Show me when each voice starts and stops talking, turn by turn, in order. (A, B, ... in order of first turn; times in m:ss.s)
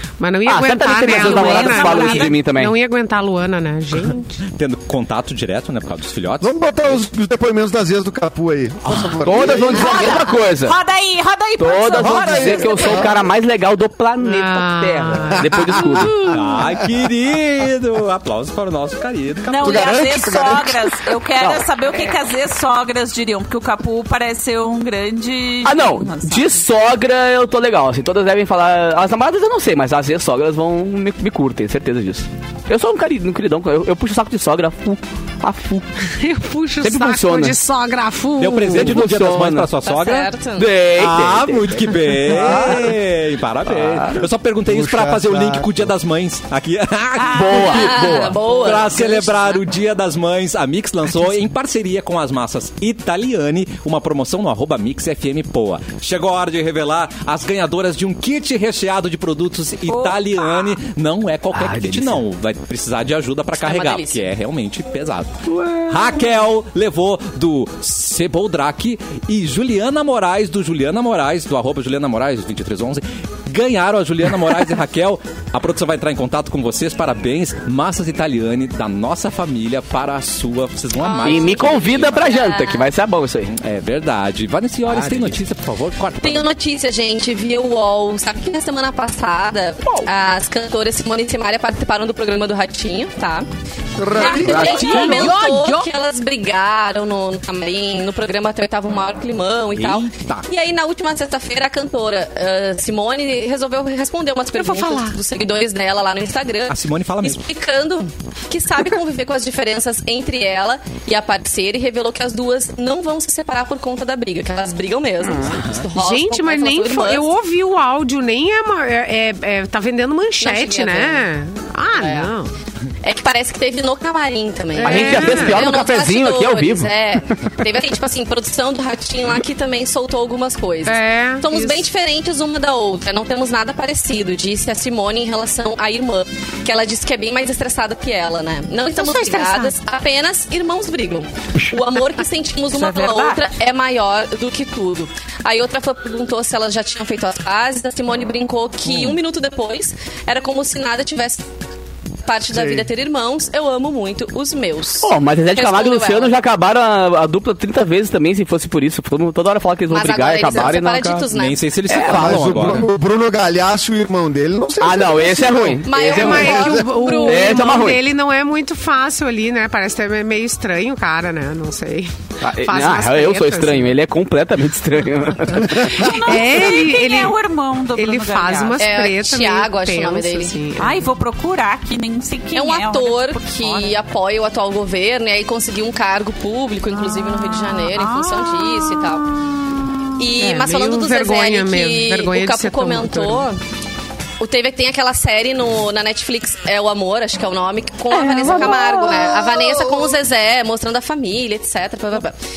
0:00.2-0:04.3 A
0:00.4-0:02.8 B
0:01.0-0:02.3 C
0:04.5-0:06.6 D
0:06.4-0:10.1 E
0:08.9-0:09.2 D
0:09.2-0:10.8 B
0:10.6-0:13.2 C
0:11.6-0:16.4 B
0:12.0-0:13.2 E
0:14.2-0:16.3 A
0:15.5-0:16.2 E
0:16.2-0:20.1 D
0:19.5-0:26.6 C
0:19.6-0:20.9 E
0:21.4-0:21.6 B
0:25.6-0:35.9 B
0:36.1-0:39.0 A
0:36.8-0:37.6 B
0:38.4-0:40.3 D
0:38.6-0:39.7 B
0:39.8-0:40.7 F
0:40.6-0:43.0 B
0:40.9-1:22.3 D
0:43.7-0:44.2 B
0:44.6-0:45.8 E
0:47.2-0:48.8 C
0:47.3-0:48.5 B
0:47.5-0:49.6 F
0:59.9-1:00.7 C
1:01.5-1:02.2 B
1:03.6-1:04.2 F
1:05.5-1:06.2 B
1:21.0-1:22.9 F
1:21.2-1:23.5 B
1:23.5-1:26.5 D
1:26.2-1:33.5 F
1:29.8-1:30.1 B
1:34.0-1:34.9 E
1:34.1-1:57.3 F
1:34.1-1:35.7 C
1:34.4-1:35.3 B
1:34.5-1:35.8 A
1:39.7-1:40.5 D
1:44.5-1:45.2 A
1:46.7-1:47.4 D
1:55.9-2:02.5 A
2:00.4-2:01.2 F
2:01.9-2:02.3 F
2:03.0-2:31.4 F
2:04.8-2:05.6 A
2:04.8-2:06.9 B
2:10.8-2:11.8 A
2:18.9-2:19.7 A
2:22.7-2:23.4 C
2:28.8-2:29.2 D
2:32.2-2:36.4 F
2:32.5-2:32.9 E
2:35.0-2:41.3 B
2:39.9-2:42.1 F
2:41.3-2:42.9 D
2:41.8-2:42.4 B
2:42.0-2:46.8 E
2:44.8-2:48.0 B
2:45.8-2:47.8 F
2:46.0-2:53.9 A
2:52.4-2:56.1 B
2:55.5-2:57.4 A
2:55.9-2:58.8 C
2:57.9-3:01.1 A
2:58.8-3:00.5 F
3:00.8-3:04.0 C
3:02.5-3:09.3 F
3:06.9-3:09.2 C
3:10.2-3:13.6 F
3:10.3-3:13.4 A
3:14.4-3:22.4 F
3:18.1-3:19.4 A
3:18.5-3:18.8 B